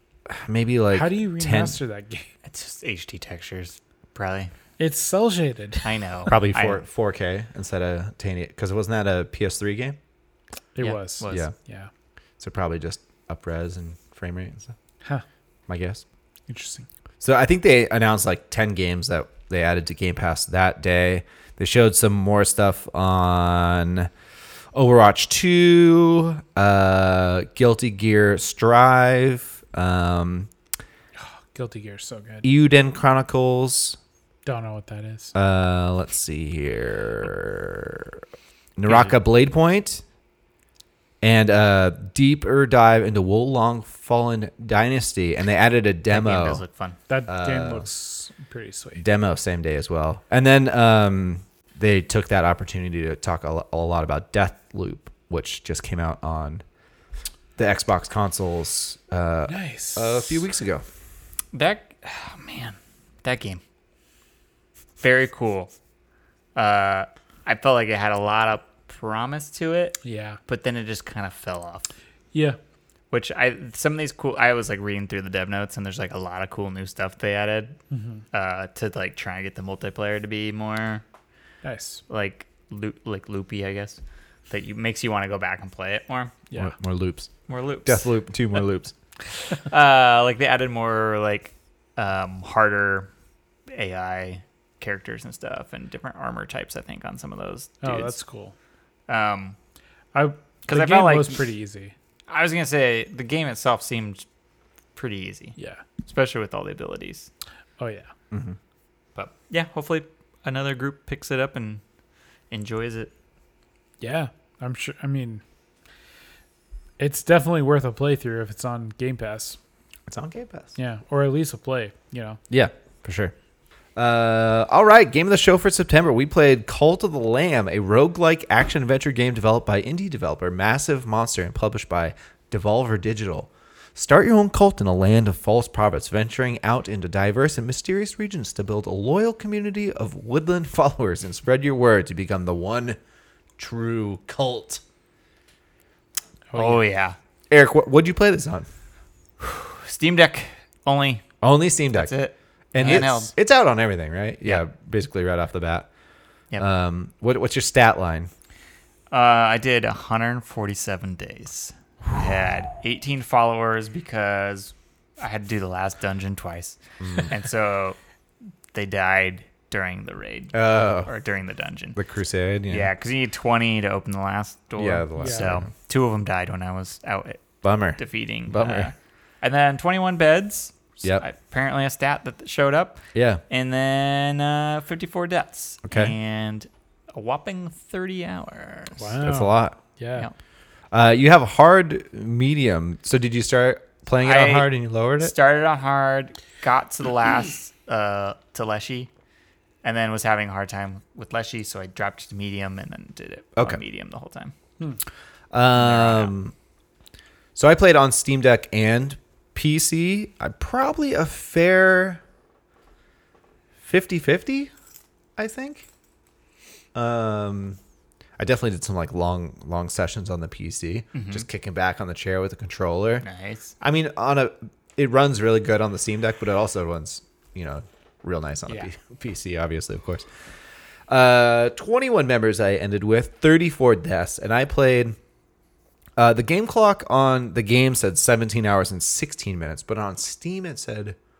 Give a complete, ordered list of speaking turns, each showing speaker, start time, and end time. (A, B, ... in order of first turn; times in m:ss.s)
0:00.3-0:01.8 A
0:00.9-0:02.2 B
0:02.4-0:04.5 C
0:04.8-0:05.9 B
0:05.8-0:06.8 C
0:06.3-0:10.0 A
0:10.8-0:11.9 B
0:10.8-0:11.5 C
0:11.3-0:11.5 A
0:12.4-0:14.7 A
0:15.7-0:16.0 A
0:16.5-0:16.9 B
0:17.2-0:24.1 A
0:24.7-0:30.5 A
0:31.2-0:32.5 B
0:32.4-0:34.0 A
0:34.4-0:35.3 B
0:35.3-0:38.2 A
0:38.8-0:40.0 A
0:38.8-0:39.1 C
0:41.2-0:46.6 A
0:46.1-0:47.0 C
0:47.1-0:49.0 B
0:47.3-0:47.8 A
0:49.0-0:56.6 A
0:57.6-1:00.8 A
0:59.5-1:00.4 B
1:01.5-1:03.6 C
1:05.0-1:05.7 C
1:06.5-1:11.9 C
1:10.0-1:10.4 B
1:13.1-1:17.8 C
1:17.9-1:18.2 B
1:18.3-1:21.0 C
1:21.6-1:22.0 B
1:22.1-1:26.3 C
1:26.6-1:27.3 A
1:27.5-1:28.1 C
1:27.8-1:28.9 A
1:29.5-1:33.1 C
1:33.7-1:38.2 C
1:37.8-1:38.5 B
1:39.1-1:39.6 C
1:40.1-1:41.9 B
1:40.7-1:41.5 C
1:42.3-1:44.2 C
1:44.9-1:47.3 C
1:45.6-1:45.8 B
1:47.8-1:48.1 B
1:48.3-1:48.6 A
1:49.1-1:51.8 C
1:52.5-1:53.1 C
1:54.0-1:55.4 B
1:57.0-1:59.6 B
2:00.1-2:00.7 A
2:00.8-2:02.4 B
2:02.5-2:03.3 A
2:04.0-2:23.0 A
2:23.6-2:24.8 A
2:26.5-2:26.8 B
2:26.5-2:27.2 C
2:27.5-2:28.7 A
2:29.4-2:31.2 C
2:31.4-2:32.1 A
2:31.9-2:33.3 C
2:32.7-2:35.9 A
2:36.6-2:38.3 A
2:39.1-2:48.0 C
2:47.0-2:47.3 A
2:48.7-2:52.0 C
2:50.5-2:51.1 A
2:51.9-2:52.9 A
2:52.7-3:09.2 C
2:54.8-2:55.7 A
2:55.2-2:55.4 B
2:57.6-2:58.9 A
3:03.1-3:03.4 A
3:05.8-3:06.1 A
3:09.0-3:10.3 B
3:09.2-3:09.8 A
3:10.9-3:15.3 A
3:14.2-3:19.1 C
3:19.8-3:24.5 C
3:23.6-3:23.8 A
3:25.5-3:26.5 A
3:25.8-3:26.3 C
3:27.5-3:32.2 A
3:33.8-3:34.7 A
3:35.4-3:35.9 A
3:36.9-3:37.8 A
3:38.4-3:43.2 A
3:41.1-3:41.4 C
3:43.2-3:43.7 C
3:43.8-3:50.3 A
3:51.1-3:55.2 A
3:56.2-4:01.2 A